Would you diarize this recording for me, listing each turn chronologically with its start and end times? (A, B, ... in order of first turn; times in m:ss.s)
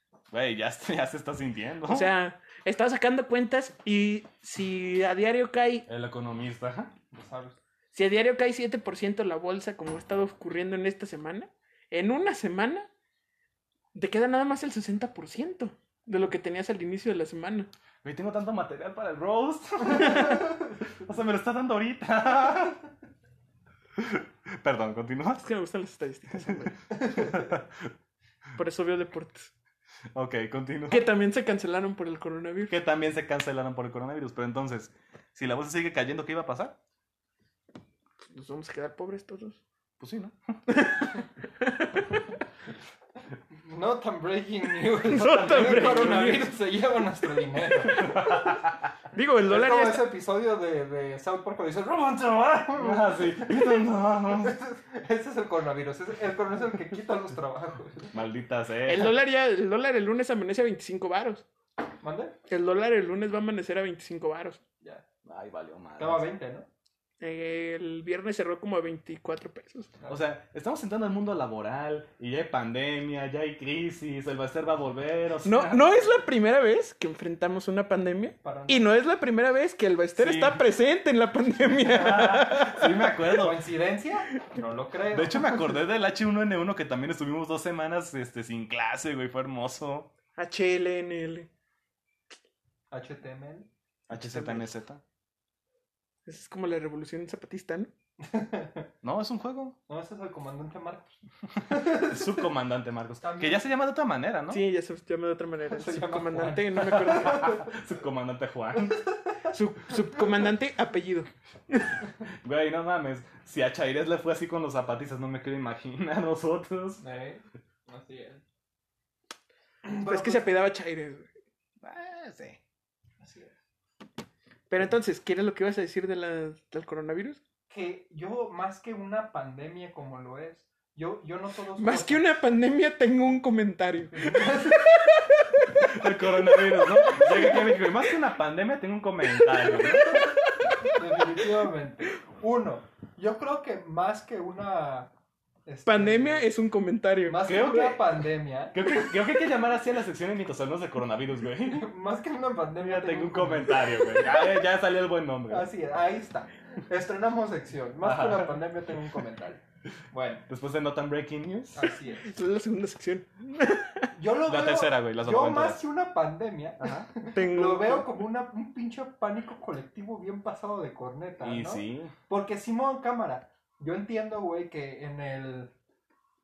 0:00.3-0:02.1 A
0:01.9-0:05.8 B
0:05.9-0:06.9 A
0:07.1-0:07.6 C
0:07.9-0:12.9 B
0:13.9-0:17.7 B
0:18.0-0:22.8 A
0:24.0-0:25.4 A
0:25.4-0:26.9 B
0:26.5-0:27.9 A
0:28.6-0:29.5 B
0:30.1-0:31.1 A
0:30.9-0:32.7 B
0:32.7-0:36.8 A
0:38.3-0:39.6 B
0:40.0-0:40.6 A
0:40.7-0:42.2 B
0:43.6-0:48.1 C
0:45.1-0:46.5 B
0:45.2-0:46.2 A
0:47.8-0:48.8 A
0:47.9-0:48.4 B
0:49.1-0:50.0 B
0:49.5-0:58.1 C
0:52.8-0:54.6 A
0:58.1-0:59.1 A
0:58.8-1:01.4 B
1:02.0-1:02.3 C
1:02.5-1:04.6 B
1:05.2-1:06.2 A
1:06.0-1:06.7 C
1:07.2-1:09.9 B
1:10.1-1:15.9 A
1:15.4-1:22.9 B
1:18.4-1:18.8 C
1:20.2-1:20.6 A
1:21.8-1:23.6 A
1:23.2-1:25.7 C
1:25.1-1:30.1 A
1:30.4-1:31.5 B
1:32.9-1:33.7 C
1:34.1-1:35.0 A
1:34.1-1:34.7 B
1:36.2-1:37.9 B
1:38.2-1:38.9 C
1:39.0-1:39.8 A
1:39.9-1:41.2 C
1:41.7-1:42.2 C
1:41.9-1:44.6 A
1:43.2-1:43.6 C
1:44.5-1:47.5 B
1:45.7-1:47.7 C
1:46.8-1:49.0 A
1:49.5-1:51.9 B
1:52.4-1:57.0 A
1:57.0-1:58.4 C
1:59.8-2:00.5 C
2:00.0-2:01.3 B
2:01.8-2:02.6 A
2:03.2-2:03.5 C
2:04.7-2:07.4 B
2:07.7-2:12.2 C
2:11.8-2:15.8 B
2:14.1-2:14.8 C
2:15.9-2:20.3 A
2:16.5-2:17.6 B
2:19.4-2:20.3 B
2:20.8-2:25.1 C
2:25.6-2:26.4 C
2:25.8-2:27.5 B
2:27.3-2:28.8 C
2:27.4-2:28.0 A
2:28.7-2:31.9 A
2:31.6-2:33.8 C
2:32.8-2:35.7 A
2:35.5-2:40.4 C
2:38.0-2:38.6 A
2:40.5-2:41.8 A
2:41.7-2:42.3 C
2:42.2-2:44.1 B
2:44.1-2:55.7 C
2:44.5-2:45.8 A
2:46.8-2:47.1 A
2:47.3-2:48.1 B
2:51.4-2:52.1 A